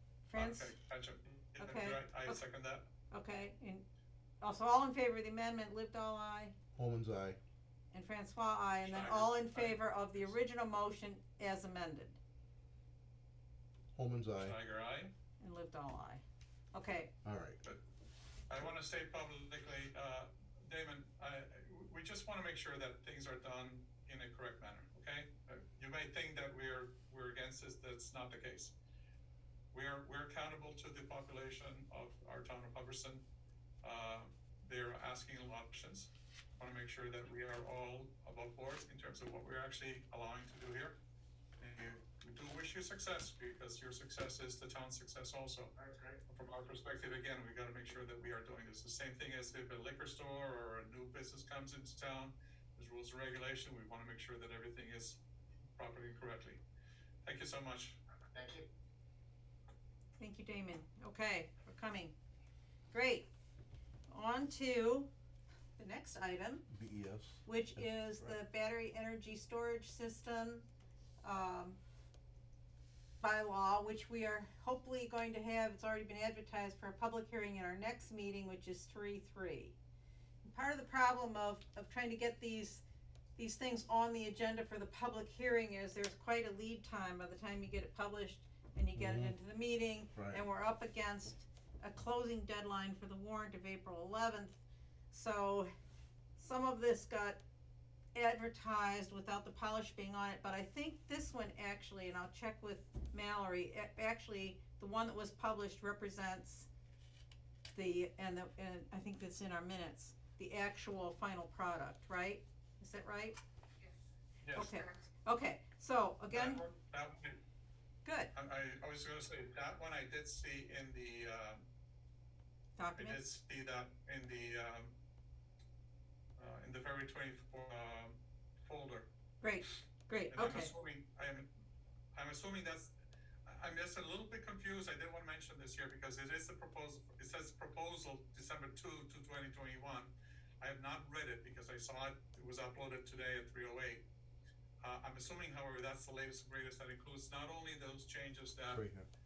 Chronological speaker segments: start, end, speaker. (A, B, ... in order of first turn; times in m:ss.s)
0:00.3-0:00.7 A
0:00.4-0:02.9 B
0:01.6-0:02.4 A
0:03.1-0:03.8 A
0:04.4-0:06.6 A
0:06.7-0:07.4 C
0:07.9-0:12.2 A
0:08.8-0:10.3 B
0:13.9-0:14.6 C
0:14.4-0:15.1 B
0:15.4-0:17.1 A
0:17.2-0:17.6 C
0:18.5-0:28.8 B
0:29.7-0:33.3 B
0:33.8-0:41.0 B
0:41.6-0:45.7 B
0:46.3-0:55.2 B
0:55.8-0:56.6 B
0:57.2-0:58.0 B
1:00.2-1:02.1 A
1:02.9-1:03.3 A
1:04.1-1:05.1 A
1:05.8-1:06.7 A
1:06.7-1:08.4 C
1:07.5-1:10.7 A
1:11.2-1:11.8 A
1:13.2-1:19.8 A
1:20.4-1:22.8 A
1:23.4-1:35.7 A
1:29.0-1:29.4 C
1:30.1-1:30.4 C
1:36.4-1:37.4 A
1:38.1-1:46.7 A
1:47.7-1:53.4 A
1:54.4-1:54.8 B
1:54.6-1:56.6 A
1:56.3-1:57.4 B
1:58.0-1:58.3 A
1:58.4-2:01.7 B
2:02.8-2:03.2 A
2:03.0-2:05.0 B
2:06.4-2:09.1 B
2:09.4-2:10.7 A
2:10.3-2:11.5 B
2:12.1-2:12.9 B
2:13.5-2:24.0 B
2:24.8-2:28.8 B
2:28.7-2:29.1 C